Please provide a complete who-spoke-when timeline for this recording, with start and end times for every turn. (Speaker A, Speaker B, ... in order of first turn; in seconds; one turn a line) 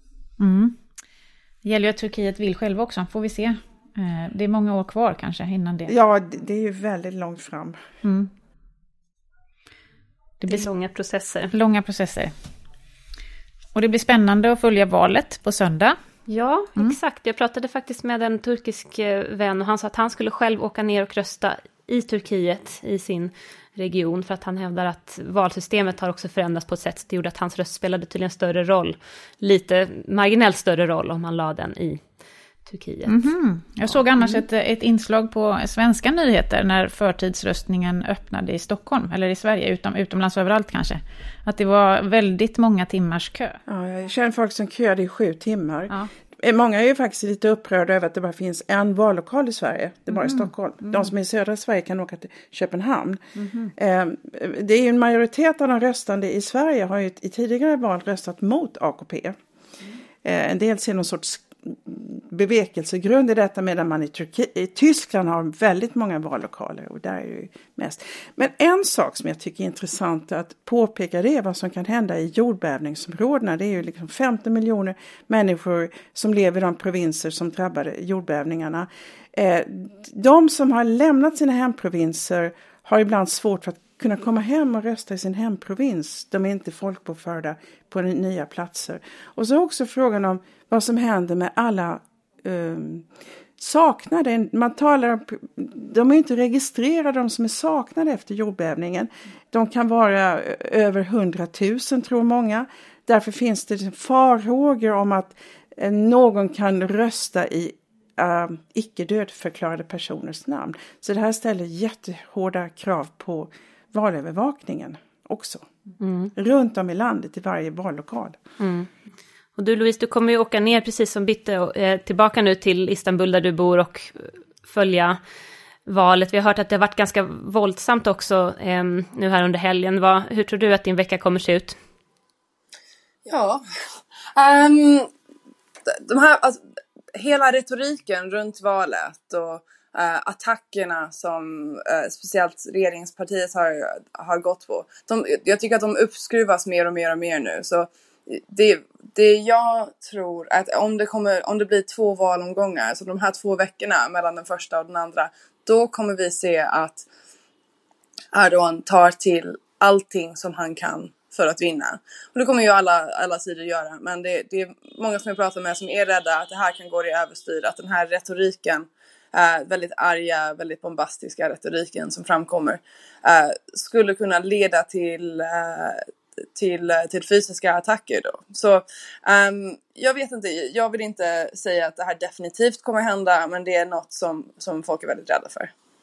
Speaker A: 0.4-0.8
Speaker A: 1.6-5.9
Speaker B: 5.9-7.8
Speaker A: 8.0-8.3
Speaker A: 10.4-10.7
Speaker C: 10.5-11.5
Speaker A: 11.5-12.3
Speaker A: 13.7-16.0
Speaker C: 16.3-32.0
Speaker C: 32.6-33.3
Speaker A: 33.1-43.6
Speaker C: 33.9-34.4
Speaker B: 43.7-53.2
Speaker A: 50.1-51.0
Speaker A: 53.4-53.7
Speaker B: 53.7-59.4
Speaker B: 60.2-93.1
Speaker B: 93.6-115.7
Speaker C: 116.0-116.3
Speaker B: 116.3-118.4
Speaker C: 118.6-118.9
Speaker C: 119.6-125.2
Speaker C: 125.9-131.8
Speaker D: 133.3-133.6
Speaker D: 134.4-135.1
Speaker D: 135.9-136.6
Speaker D: 137.1-157.1
Speaker D: 158.3-176.0
Speaker D: 176.6-185.7